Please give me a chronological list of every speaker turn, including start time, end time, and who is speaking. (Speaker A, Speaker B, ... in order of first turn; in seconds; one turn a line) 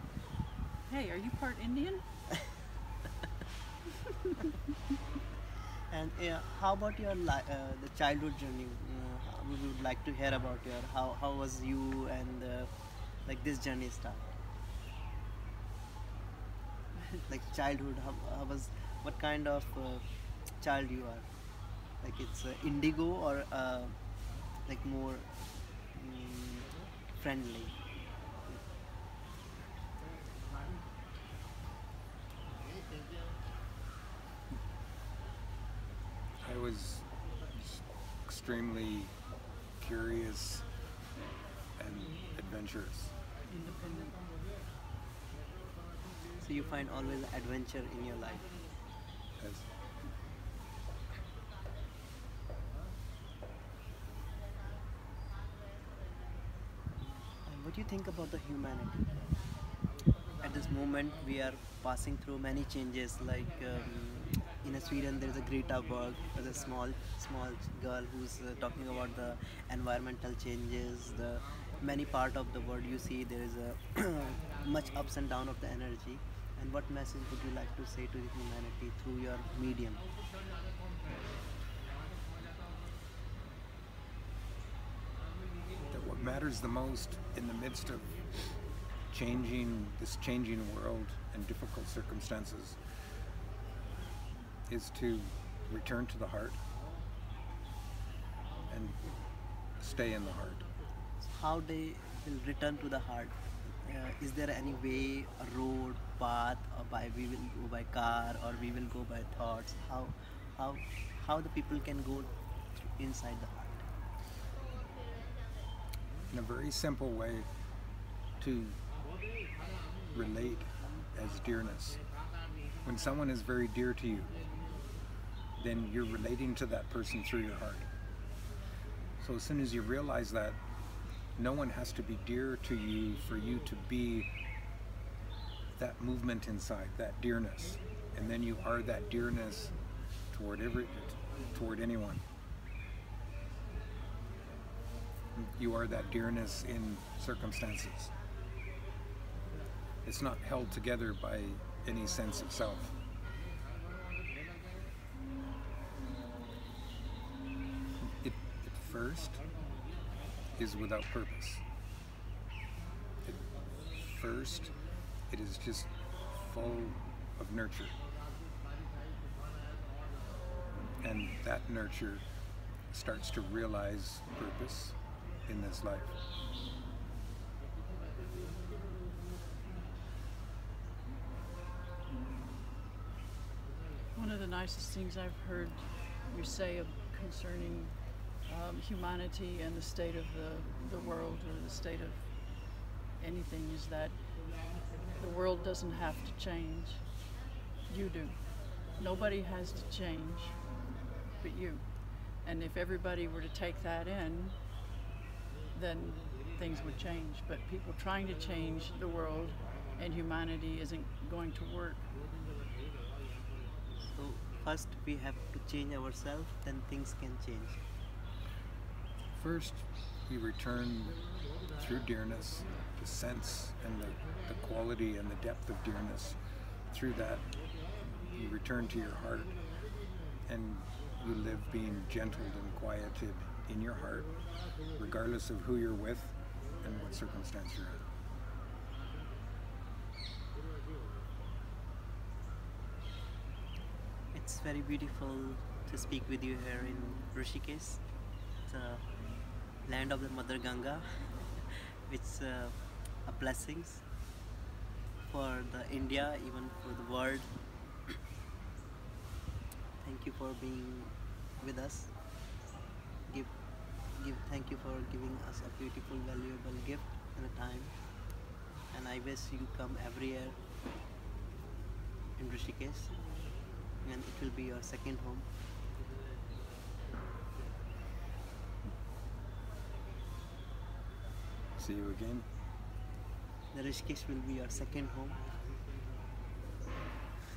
Speaker A: 0.9-2.0
Speaker B: 5.9-12.7
Speaker B: 13.2-14.3
Speaker B: 17.3-20.0
Speaker B: 20.6-21.2
Speaker B: 22.0-23.9
Speaker B: 24.7-25.3
Speaker B: 25.9-27.8
Speaker C: 36.4-39.1
Speaker C: 39.8-40.7
Speaker C: 41.8-43.1
Speaker A: 43.5-44.2
Speaker B: 46.4-48.5
Speaker C: 49.4-49.6
Speaker B: 57.5-59.1
Speaker B: 60.4-80.0
Speaker C: 85.9-88.2
Speaker C: 89.1-92.8
Speaker C: 94.7-96.6
Speaker C: 98.7-99.0
Speaker C: 99.8-100.7
Speaker B: 101.2-113.9
Speaker C: 116.3-117.5
Speaker C: 118.4-118.8
Speaker C: 120.1-122.0
Speaker C: 122.8-124.3
Speaker C: 125.6-127.9
Speaker C: 129.2-130.6
Speaker C: 131.4-134.3
Speaker C: 135.8-139.7
Speaker C: 140.3-142.2
Speaker C: 145.3-148.1
Speaker C: 150.0-152.9
Speaker C: 158.0-159.4
Speaker C: 160.6-161.6
Speaker C: 163.2-164.7
Speaker C: 165.3-168.0
Speaker C: 171.0-172.2
Speaker C: 172.9-176.2
Speaker A: 184.1-194.2
Speaker A: 195.1-197.1
Speaker A: 197.9-200.6
Speaker A: 201.3-204.6
Speaker A: 205.7-212.1
Speaker B: 214.1-217.8
Speaker C: 219.3-221.2
Speaker C: 221.7-226.4
Speaker C: 226.9-227.4
Speaker C: 228.3-229.6
Speaker C: 230.4-234.3
Speaker C: 234.9-238.1
Speaker B: 244.3-248.0
Speaker B: 248.7-249.0
Speaker B: 249.8-252.7
Speaker B: 253.2-254.0
Speaker B: 255.3-257.5
Speaker B: 260.0-262.1
Speaker B: 264.1-267.9
Speaker B: 268.9-270.6
Speaker B: 272.4-273.2
Speaker B: 274.0-275.5
Speaker C: 281.8-282.4
Speaker B: 283.7-285.4